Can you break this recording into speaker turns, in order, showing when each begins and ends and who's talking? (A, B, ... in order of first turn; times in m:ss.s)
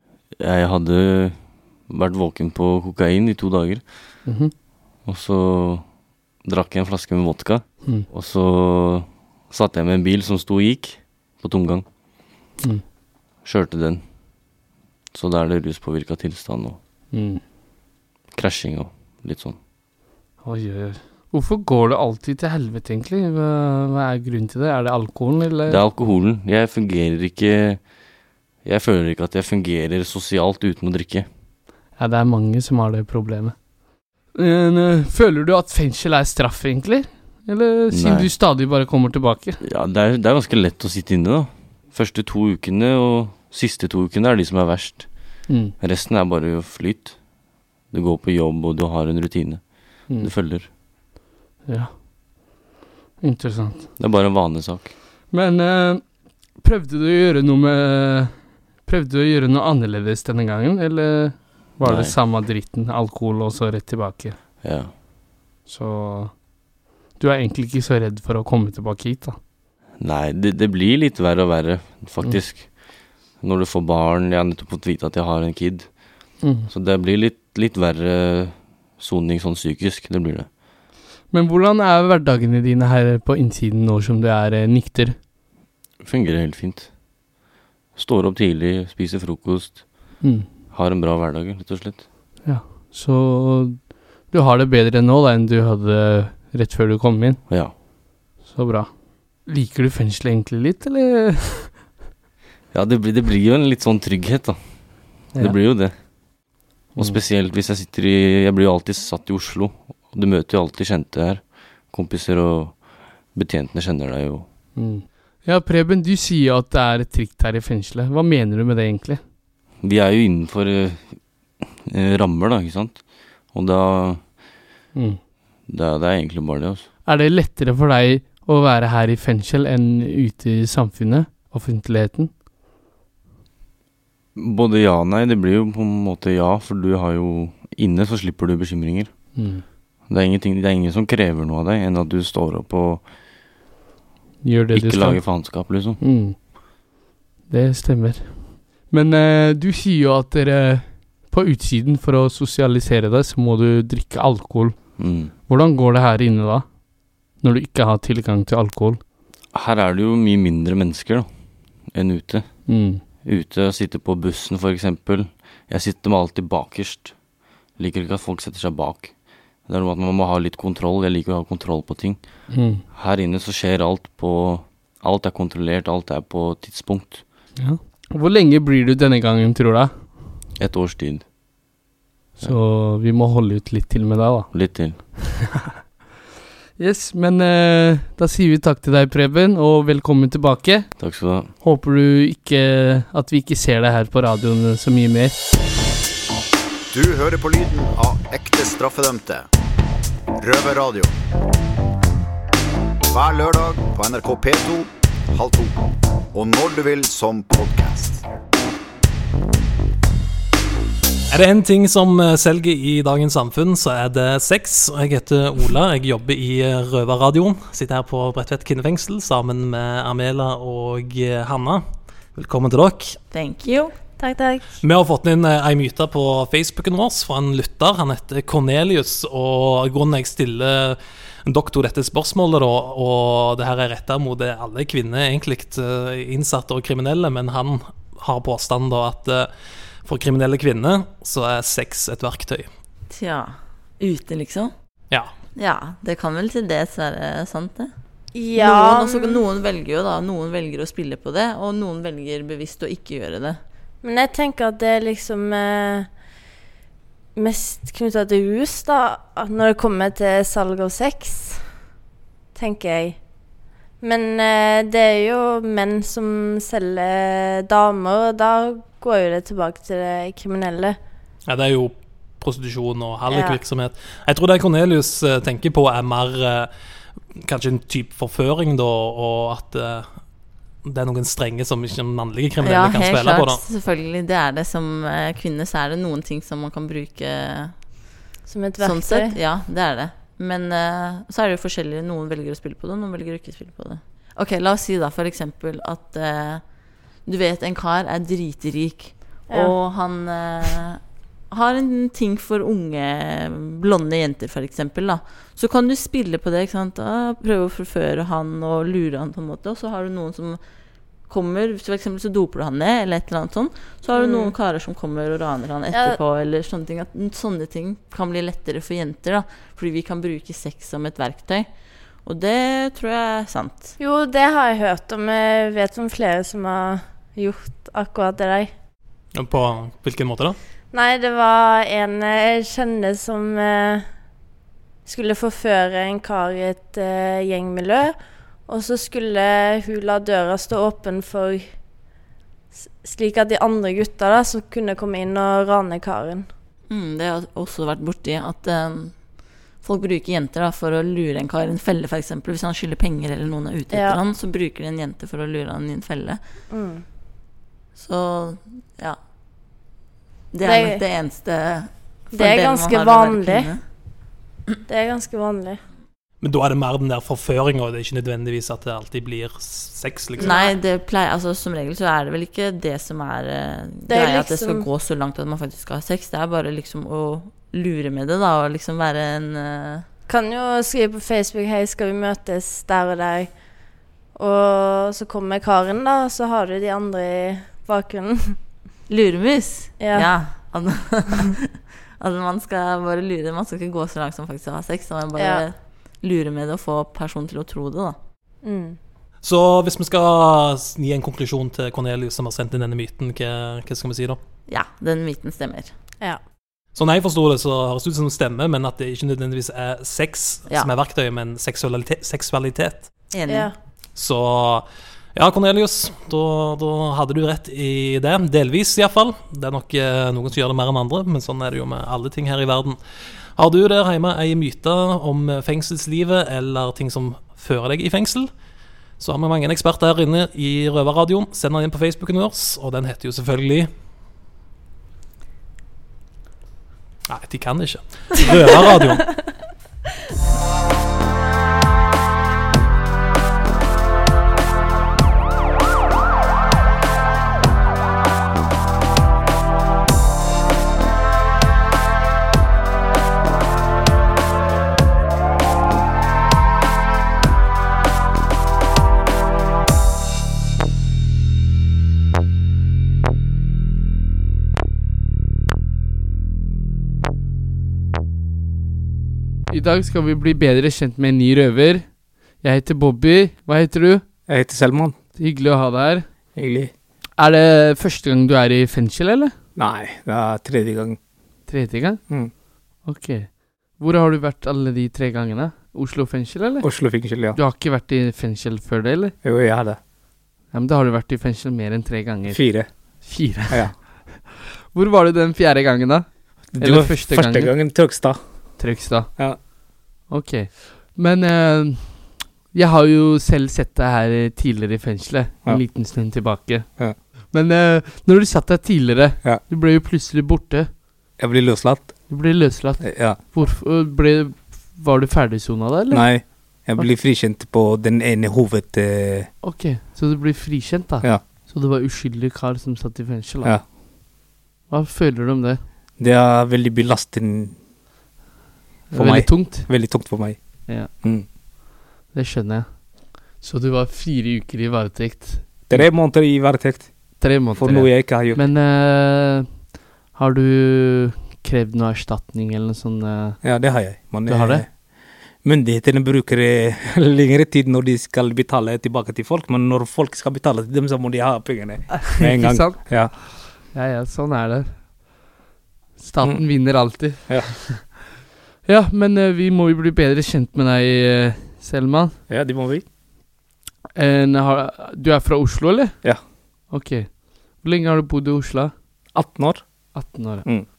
0:00.4-0:03.8 A
0:04.2-0:04.5 B
0:05.0-0:05.8 A
0:06.4-0:11.8 A
0:13.4-0:14.0 A
0:15.1-0:16.8 A
0:17.1-0:17.4 B
0:18.3-0:19.6 A
0:20.4-0:25.8 B
0:25.7-0:27.8 A
0:28.6-0:31.3 A
0:32.0-0:33.5 B
0:34.3-0:39.6 B
0:37.9-0:38.3 A
0:39.6-0:45.0 A
0:45.5-0:45.7 B
0:45.8-0:47.2 A
0:47.9-0:50.7 A
0:51.6-0:51.9 B
0:53.2-0:53.9 B
0:54.0-0:54.9 A
0:55.3-0:56.0 B
0:56.6-1:04.4 B
1:01.8-1:02.2 A
1:04.6-1:04.9 A
1:05.7-1:06.3 B
1:07.2-1:09.4 B
1:10.0-1:12.7 A
1:13.4-1:15.9 A
1:16.4-1:16.7 B
1:16.7-1:20.5 A
1:21.3-1:25.2 B
1:26.0-1:26.9 A
1:27.9-1:29.8 A
1:30.2-1:30.5 B
1:30.7-1:32.0 A
1:32.4-1:37.4 B
1:37.5-1:37.7 A
1:38.4-1:38.9 B
1:39.4-1:41.7 B
1:42.7-1:44.6 A
1:45.4-1:45.9 A
1:47.0-1:52.8 A
1:53.3-1:54.5 A
1:54.8-1:59.2 B
1:59.8-2:01.1 A
2:01.8-2:04.2 A
2:05.7-2:06.9 A
2:07.0-2:12.3 B
2:14.4-2:19.1 A
2:19.4-2:19.6 B
2:20.1-2:23.0 A
2:24.4-2:25.4 B
2:24.7-2:26.0 A
2:26.0-2:26.4 B
2:27.5-2:34.8 B
2:35.0-2:35.3 A
2:35.5-2:36.6 B
2:37.4-2:39.0 B
2:39.5-2:41.3 A
2:41.9-2:42.5 A
2:42.7-2:43.0 B
2:43.2-2:47.1 A
2:47.8-2:49.1 A
2:49.7-2:52.2 A
2:52.5-2:52.8 B
2:52.9-2:57.2 A
2:57.6-2:59.9 B
3:00.6-3:01.2 A
3:02.4-3:04.5 B
3:04.5-3:05.0 A
3:06.8-3:10.9 B
3:11.0-3:11.5 A
3:11.6-3:15.4 B
3:16.9-3:19.5 C
3:20.4-3:21.1 C
3:23.1-3:28.2 C
3:31.3-3:43.2 D
3:43.3-3:43.9 E
3:44.2-3:44.7 F
3:44.8-3:59.5 D
4:00.0-4:02.7 D
4:03.1-4:04.7 E
4:05.6-4:07.9 E
4:08.3-4:09.4 F
4:08.6-4:13.6 E
4:14.0-4:16.1 F
4:17.4-4:21.6 F
4:22.6-4:23.2 F
4:24.0-4:31.0 F
4:31.5-4:36.7 D
4:33.3-4:33.6 F
4:37.4-4:40.2 D
4:40.8-4:43.6 D
4:42.6-4:47.7 E
4:48.5-4:49.3 F
4:48.8-4:56.6 E
4:57.2-5:01.0 E
5:01.5-5:10.6 E
5:11.3-5:21.7 E
5:14.1-5:14.5 F
5:15.9-5:16.2 F
5:22.2-5:23.9 E
5:24.0-5:28.7 F
5:29.3-5:30.6 D
5:30.9-5:34.0 F
5:35.1-5:41.7 F
5:43.0-5:46.5 F
5:46.9-5:49.2 E
5:49.8-5:56.4 E
5:53.9-5:54.2 F
5:56.7-5:57.0 F
5:58.0-5:59.2 E
6:00.5-6:03.8 E
6:00.6-6:01.0 F
6:02.3-6:03.7 F
6:04.9-6:05.8 F
6:06.4-6:10.5 D
6:10.4-6:10.7 F
6:10.4-6:20.0 E
6:14.1-6:14.8 F
6:20.3-6:23.5 F
6:24.4-6:28.6 F
6:29.1-6:38.2 E
6:30.0-6:30.3 F
6:35.4-6:35.6 F
6:38.6-6:39.0 F
6:39.4-6:44.4 D
6:44.7-6:45.9 E
6:46.9-6:53.1 D
6:53.3-6:53.7 E
6:53.5-6:53.7 F
6:54.2-7:03.0 D
7:03.6-7:08.5 D
7:09.2-7:13.9 D
7:17.3-7:19.3 D
7:49.7-7:52.1 B
7:52.6-7:54.2 B
7:54.5-7:55.1 G
7:55.4-7:56.2 B
7:56.6-7:56.9 G
7:57.4-7:59.5 B
7:59.8-8:01.2 G
8:01.7-8:02.2 B
8:03.0-8:06.9 B
8:06.8-8:07.6 G
8:07.5-8:09.3 B
8:09.4-8:10.0 G
8:10.7-8:12.6 B
8:12.5-8:12.9 G
8:13.2-8:13.9 B
8:14.5-8:16.3 B
8:16.7-8:18.4 G
8:16.8-8:17.7 B
8:18.8-8:19.3 B
8:20.3-8:26.9 B
8:27.5-8:30.9 B
8:31.4-8:32.2 G
8:32.3-8:36.3 B
8:33.0-8:33.4 G
8:36.1-8:39.5 G
8:39.6-8:43.8 B
8:44.9-8:45.8 B
8:46.2-8:47.8 G
8:49.1-8:49.9 B
8:49.1-8:50.6 G
8:52.3-8:52.9 B
8:53.6-8:56.1 B
8:55.9-8:57.1 G
8:57.4-8:59.7 B
8:57.7-8:58.6 G
9:00.3-9:03.6 B
9:03.6-9:04.9 G
9:04.4-9:04.8 B
9:05.6-9:13.3 G
9:12.2-9:15.0 B
9:16.2-9:18.0 B
9:16.4-9:16.6 G
9:17.5-9:17.7 G
9:18.8-9:22.4 B
9:22.5-9:23.0 G
9:24.1-9:26.2 B
9:26.9-9:28.9 B
9:29.3-9:29.8 G
9:30.1-9:30.7 B